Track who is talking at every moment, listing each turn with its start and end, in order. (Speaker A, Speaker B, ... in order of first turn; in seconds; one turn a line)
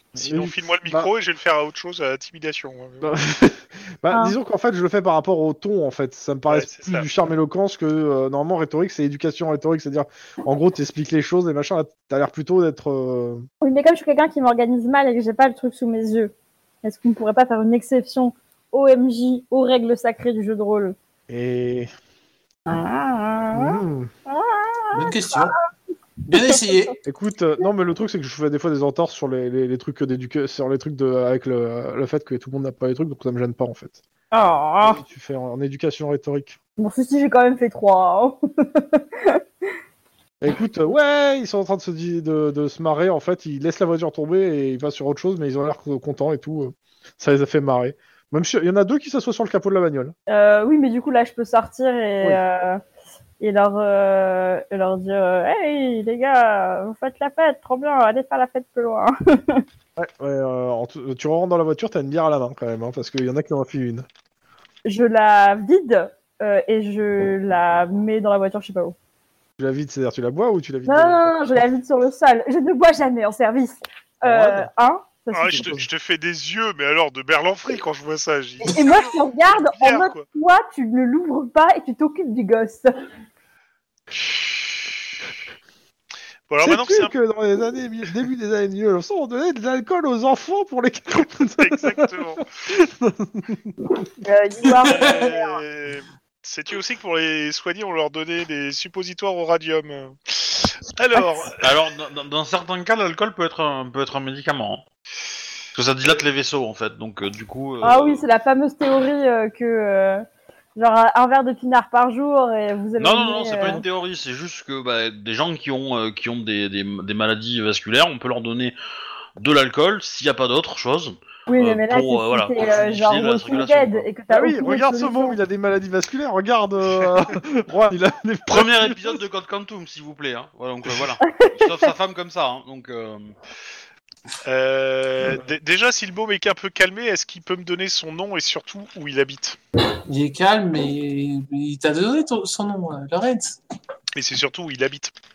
Speaker A: 0.1-3.1
Speaker B: 0.1-1.1
Speaker B: 3.0-13.4
Speaker A: 6.5-7.1
Speaker C: 13.6-20.9
Speaker B: 21.3-21.9
Speaker C: 22.7-25.6
Speaker B: 23.5-24.1
Speaker D: 24.9-25.6
Speaker D: 26.3-26.9
Speaker C: 26.3-26.8
Speaker B: 27.0-34.0
Speaker C: 34.3-35.0
Speaker B: 34.8-36.6
Speaker C: 36.8-39.4
Speaker B: 40.4-50.1
Speaker C: 50.3-52.8
Speaker C: 53.4-59.6
Speaker B: 60.0-64.1
Speaker C: 64.8-69.0
Speaker B: 69.6-71.3
Speaker C: 70.8-75.8
Speaker B: 74.2-74.7
Speaker A: 75.3-80.2
Speaker C: 78.6-82.9
Speaker B: 84.2-84.9
Speaker A: 86.5-87.1
Speaker B: 86.6-92.1
Speaker A: 91.6-92.4
Speaker B: 92.6-93.7
Speaker C: 94.2-95.6
Speaker A: 94.8-101.8
Speaker C: 101.2-101.4
Speaker E: 101.6-104.8
Speaker E: 105.7-108.2
Speaker C: 107.8-110.2
Speaker C: 110.8-113.8
Speaker E: 113.0-118.7
Speaker E: 119.4-124.1
Speaker C: 121.5-125.3
Speaker B: 124.3-129.2
Speaker E: 128.5-133.3
Speaker C: 131.2-131.9
Speaker A: 134.4-139.6
Speaker D: 140.0-143.6
Speaker A: 144.1-145.1